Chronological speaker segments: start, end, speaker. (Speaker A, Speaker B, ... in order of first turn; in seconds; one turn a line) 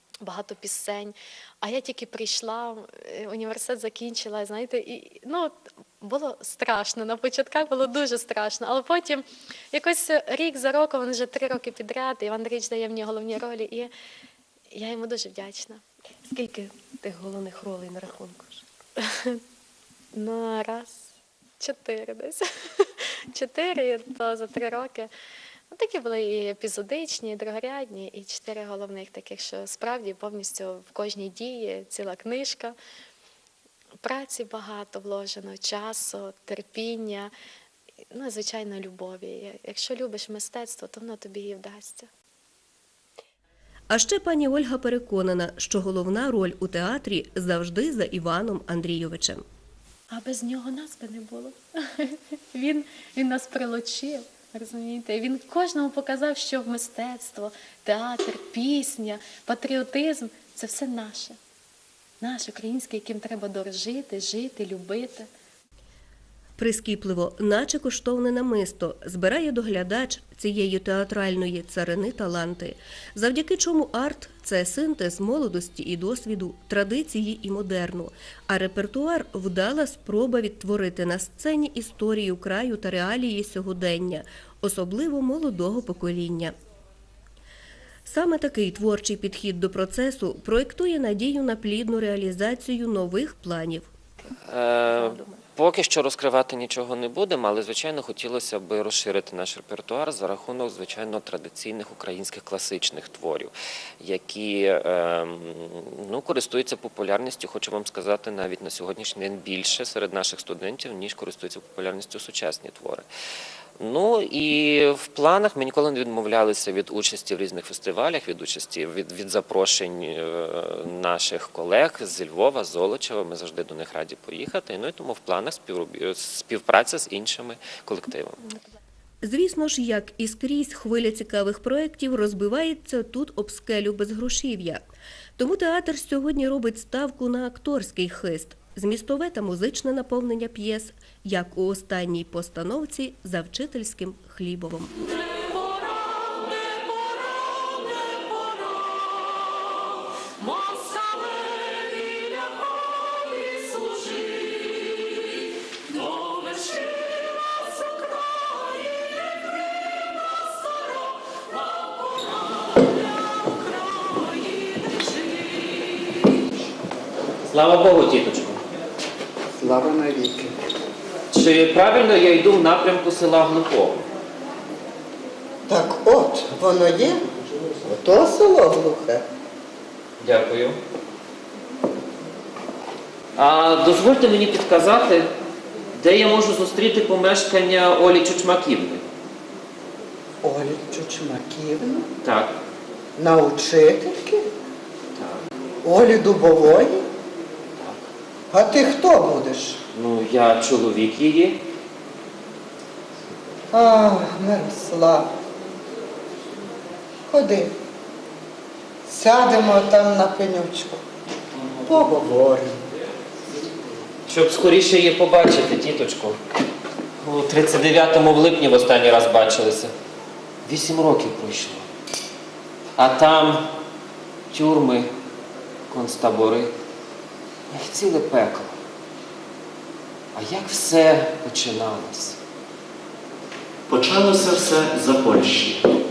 Speaker A: 0.2-13.9
Speaker A: 14.7-15.8
Speaker B: 16.3-18.6
Speaker A: 19.0-19.4
Speaker A: 20.1-25.1
Speaker A: 25.7-32.8
Speaker A: 34.0-37.3
Speaker A: 38.1-42.1
Speaker B: 43.9-49.5
Speaker A: 50.1-61.4
Speaker A: 62.2-65.3
Speaker B: 66.6-86.5
Speaker B: 88.1-93.9
Speaker C: 94.5-113.1
Speaker C: 113.8-128.4
Speaker B: 129.2-134.8
Speaker B: 135.4-145.0
Speaker C: 167.5-168.6
Speaker D: 169.6-170.6
Speaker C: 171.3-174.1
Speaker D: 175.7-177.2
Speaker D: 177.8-179.2
Speaker C: 180.2-180.8
Speaker C: 183.4-185.3
Speaker C: 186.0-189.0
Speaker D: 190.4-192.1
Speaker C: 192.2-192.6
Speaker D: 193.2-194.5
Speaker C: 195.2-195.4
Speaker D: 195.8-197.1
Speaker C: 197.8-198.1
Speaker D: 198.5-199.8
Speaker C: 199.9-201.6
Speaker D: 203.7-205.3
Speaker D: 207.3-207.8
Speaker D: 209.1-211.0
Speaker D: 211.8-212.8
Speaker C: 214.3-216.4
Speaker C: 217.2-219.9
Speaker C: 220.7-221.9
Speaker C: 223.0-223.7
Speaker C: 224.5-225.1
Speaker C: 225.9-226.7
Speaker C: 227.7-228.8
Speaker C: 230.3-232.4
Speaker E: 233.9-235.8